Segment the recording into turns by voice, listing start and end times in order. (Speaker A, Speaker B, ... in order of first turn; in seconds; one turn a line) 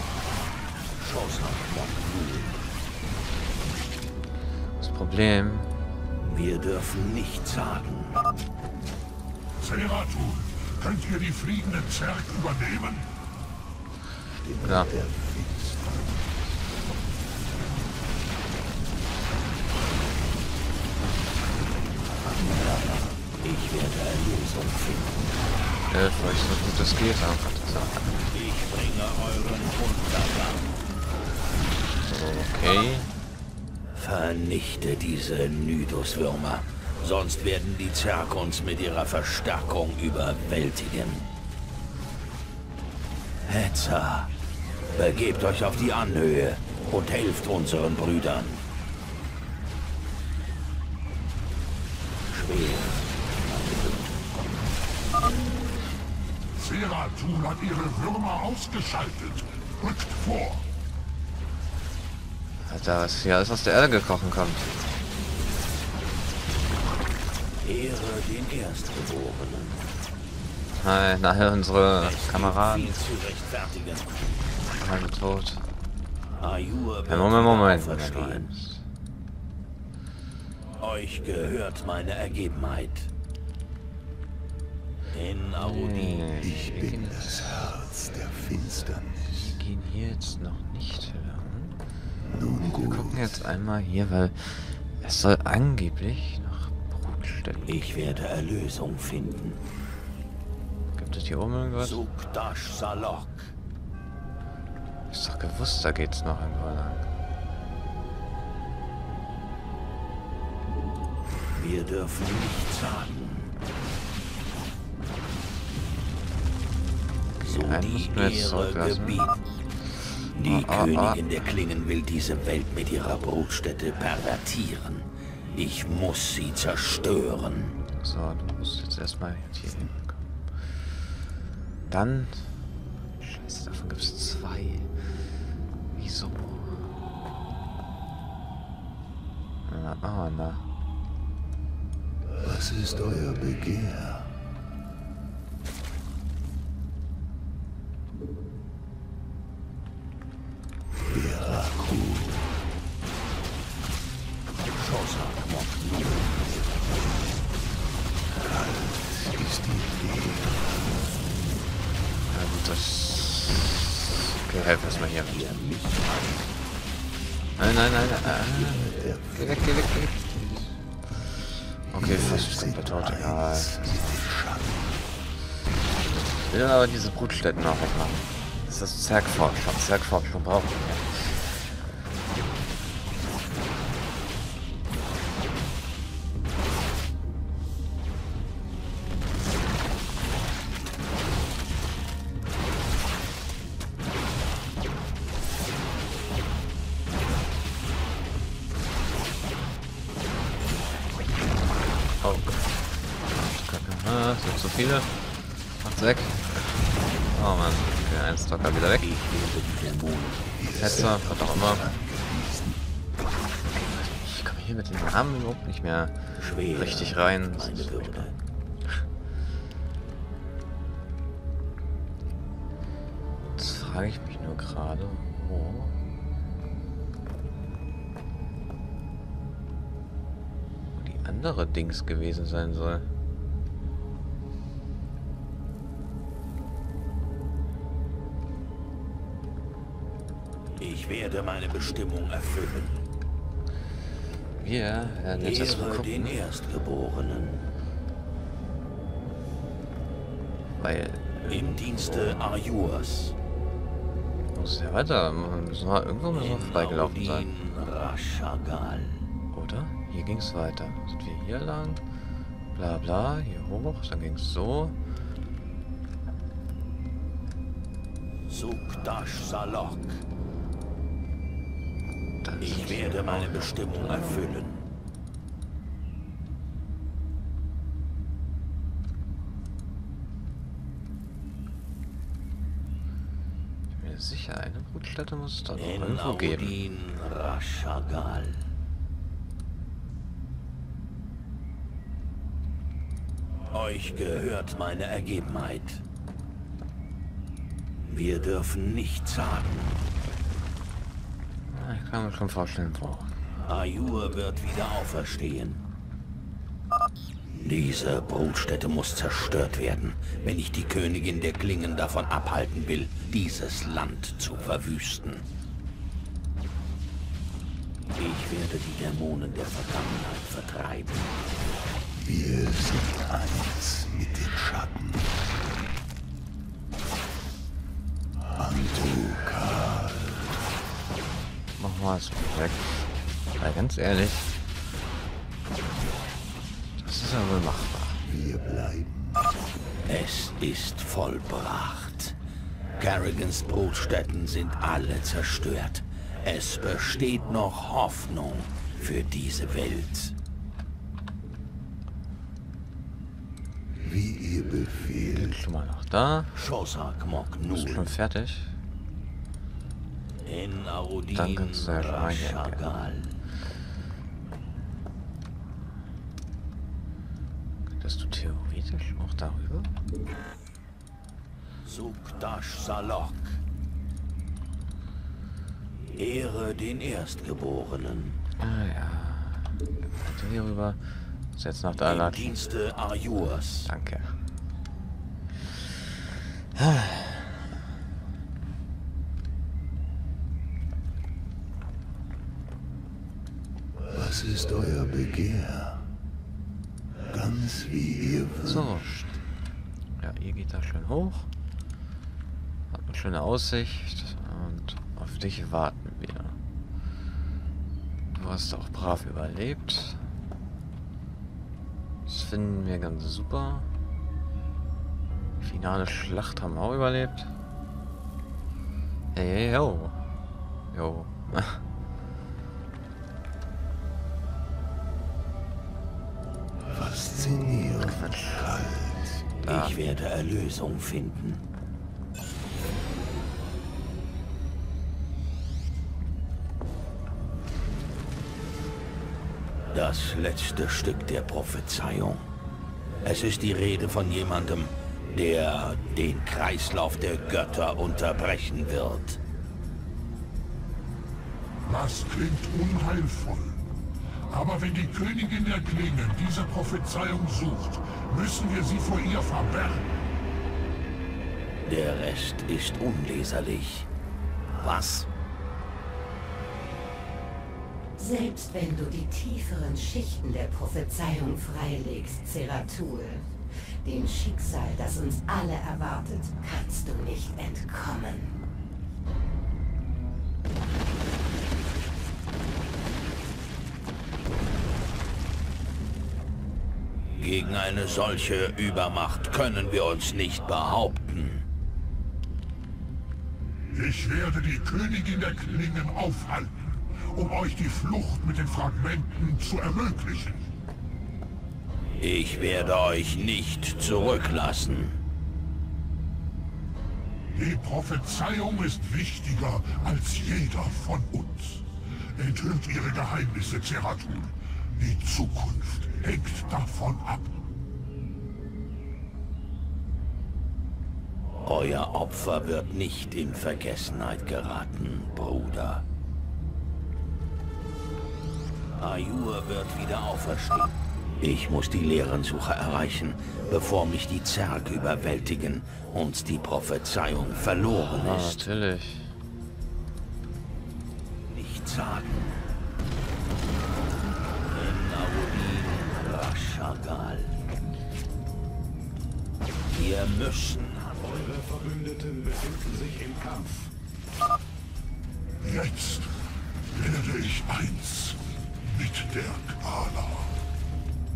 Speaker A: 1.0-2.6
Speaker B: 4.8-5.7
Speaker A: 6.2-8.2
Speaker C: 9.6-13.1
Speaker D: 14.4-16.3
Speaker B: 14.6-14.9
Speaker D: 21.9-23.2
Speaker A: 23.4-25.2
Speaker B: 25.9-28.0
Speaker A: 28.3-30.8
Speaker B: 32.0-33.1
Speaker A: 34.0-41.3
Speaker A: 43.5-44.3
Speaker A: 44.9-48.6
Speaker A: 52.3-54.2
Speaker C: 56.6-60.6
Speaker B: 62.6-64.8
Speaker A: 67.6-69.9
Speaker B: 70.8-73.0
Speaker A: 72.0-74.1
Speaker B: 74.8-75.7
Speaker A: 76.4-78.5
Speaker B: 77.1-78.8
Speaker A: 80.8-83.1
Speaker A: 85.1-86.3
Speaker B: 85.6-87.8
Speaker D: 86.4-89.6
Speaker B: 89.5-91.8
Speaker D: 92.2-93.5
Speaker B: 92.8-98.0
Speaker A: 97.7-99.6
Speaker B: 101.0-102.0
Speaker A: 101.8-103.5
Speaker B: 105.1-107.1
Speaker A: 111.5-113.5
Speaker B: 117.4-119.2
Speaker A: 117.4-119.4
Speaker A: 120.4-127.8
Speaker B: 120.5-121.5
Speaker B: 128.0-130.2
Speaker B: 131.9-132.6
Speaker B: 133.2-135.0
Speaker B: 135.9-136.8
Speaker B: 139.7-140.7
Speaker D: 142.4-144.3
Speaker D: 151.1-152.5
Speaker A: 154.8-156.7
Speaker D: 158.3-160.9
Speaker B: 162.3-165.5
Speaker A: 165.1-166.4
Speaker B: 167.6-170.6
Speaker D: 168.2-169.6
Speaker D: 171.9-175.1
Speaker B: 171.9-173.9
Speaker B: 176.1-181.5
Speaker B: 202.2-202.6
Speaker B: 203.3-209.1
Speaker A: 209.0-210.5
Speaker D: 210.6-212.8
Speaker B: 210.8-211.9
Speaker B: 213.7-216.2
Speaker A: 216.4-218.3
Speaker B: 216.7-218.3
Speaker B: 223.6-225.9
Speaker B: 230.9-233.1
Speaker A: 240.8-243.0
Speaker B: 244.6-246.4
Speaker A: 245.4-247.7
Speaker B: 250.8-252.6
Speaker A: 251.5-253.3
Speaker B: 254.5-257.5
Speaker A: 256.3-259.3
Speaker B: 259.5-262.0
Speaker B: 262.8-265.0
Speaker A: 268.5-270.2
Speaker B: 272.4-274.5
Speaker A: 272.6-274.8
Speaker B: 284.0-286.8
Speaker A: 285.8-288.6
Speaker A: 293.7-296.0
Speaker A: 298.1-300.0
Speaker B: 301.7-303.3
Speaker A: 303.6-305.8
Speaker A: 307.6-315.4
Speaker A: 318.2-321.4
Speaker D: 322.1-325.5
Speaker D: 328.4-330.6
Speaker B: 331.8-334.5
Speaker B: 337.0-338.2
Speaker D: 338.2-339.6
Speaker A: 340.1-342.4
Speaker A: 343.0-350.4
Speaker D: 354.0-355.6
Speaker B: 355.3-356.5
Speaker A: 356.5-358.1
Speaker B: 357.7-358.7
Speaker A: 360.4-363.4
Speaker B: 361.3-362.8
Speaker B: 368.0-369.9
Speaker A: 371.8-373.6
Speaker A: 376.1-378.4
Speaker B: 378.6-382.6
Speaker A: 382.0-383.9
Speaker B: 383.9-384.4
Speaker B: 386.8-387.6
Speaker D: 394.1-396.0
Speaker D: 397.3-399.2
Speaker B: 398.7-399.3
Speaker B: 400.2-401.5
Speaker B: 402.9-406.6
Speaker B: 408.3-410.2
Speaker B: 412.3-413.9
Speaker B: 415.6-417.5
Speaker B: 419.4-420.2
Speaker B: 420.9-421.8
Speaker D: 426.8-429.5
Speaker B: 428.0-428.7
Speaker B: 429.6-430.0
Speaker A: 429.7-431.6
Speaker A: 439.9-442.4
Speaker A: 443.2-449.4
Speaker C: 451.9-453.8
Speaker C: 454.5-460.2
Speaker A: 461.9-464.1
Speaker A: 464.8-465.3
Speaker E: 468.2-473.5
Speaker E: 474.0-478.6
Speaker A: 487.4-491.6
Speaker C: 493.9-500.6
Speaker A: 502.2-505.2
Speaker C: 507.6-511.8
Speaker C: 512.4-517.6
Speaker A: 521.6-526.0
Speaker A: 529.0-538.6
Speaker B: 537.8-539.3
Speaker A: 541.5-542.6
Speaker A: 544.7-547.5
Speaker A: 549.9-551.4
Speaker F: 551.2-553.9
Speaker C: 555.6-556.3
Speaker C: 556.9-560.5